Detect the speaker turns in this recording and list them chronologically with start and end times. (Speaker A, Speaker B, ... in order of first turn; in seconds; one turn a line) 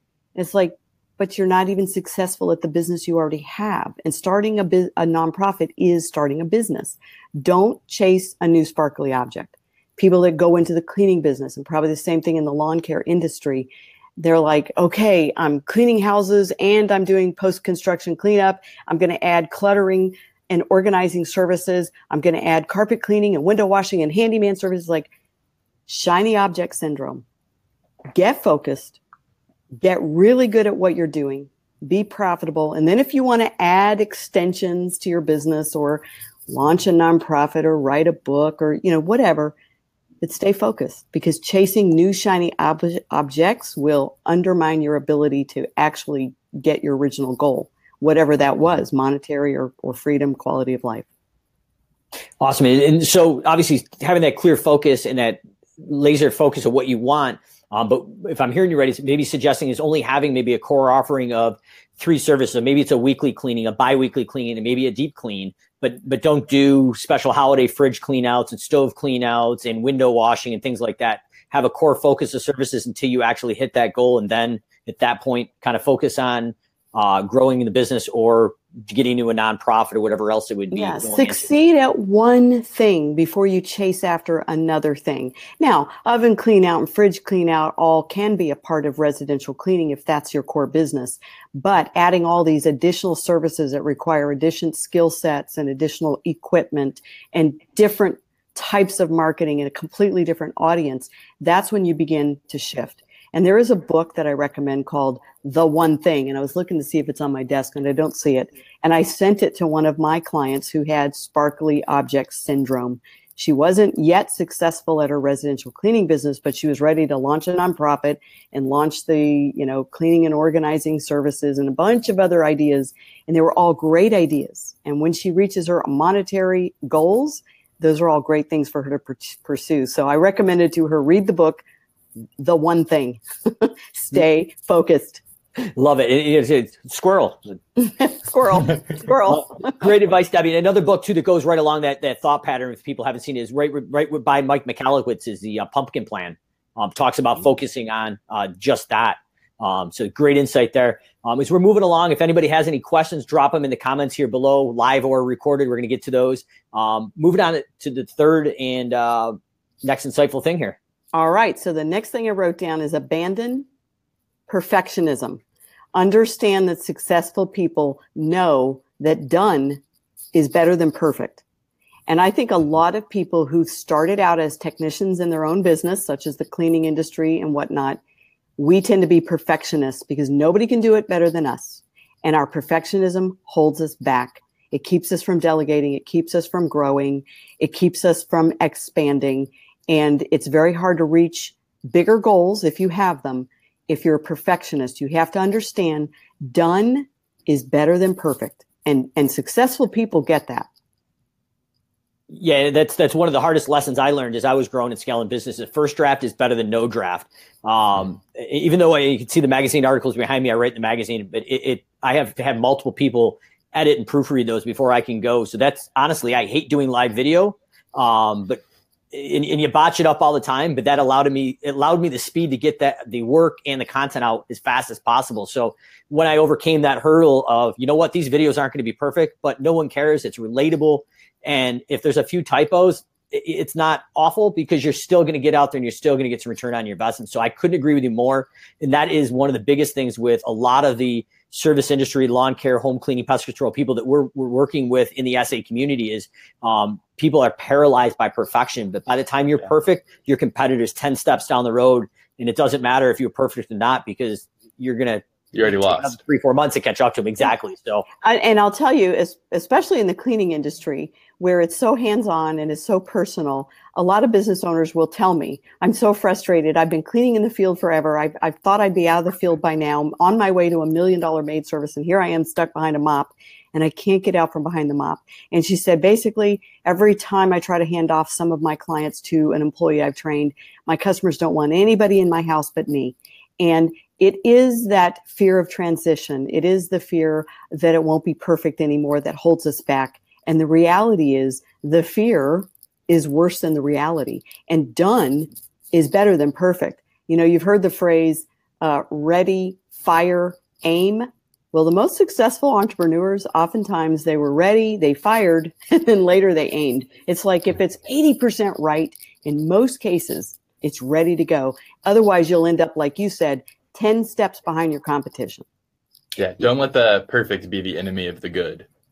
Speaker A: 0.4-25.1
Speaker A: 25.9-27.2
Speaker A: 28.1-29.0
Speaker A: 29.8-39.5
Speaker A: 40.2-51.0
Speaker B: 52.4-81.5
Speaker A: 80.7-131.6
Speaker A: 132.4-135.2
Speaker B: 135.7-137.6
Speaker A: 137.8-139.8
Speaker B: 139.3-160.8
Speaker A: 161.1-163.7
Speaker A: 164.5-165.4
Speaker A: 165.9-169.8
Speaker A: 170.3-171.4
Speaker A: 172.1-178.0
Speaker A: 178.6-200.7
Speaker B: 202.3-255.2
Speaker C: 255.5-256.1
Speaker B: 255.8-258.1
Speaker A: 258.2-315.6
Speaker C: 316.4-318.9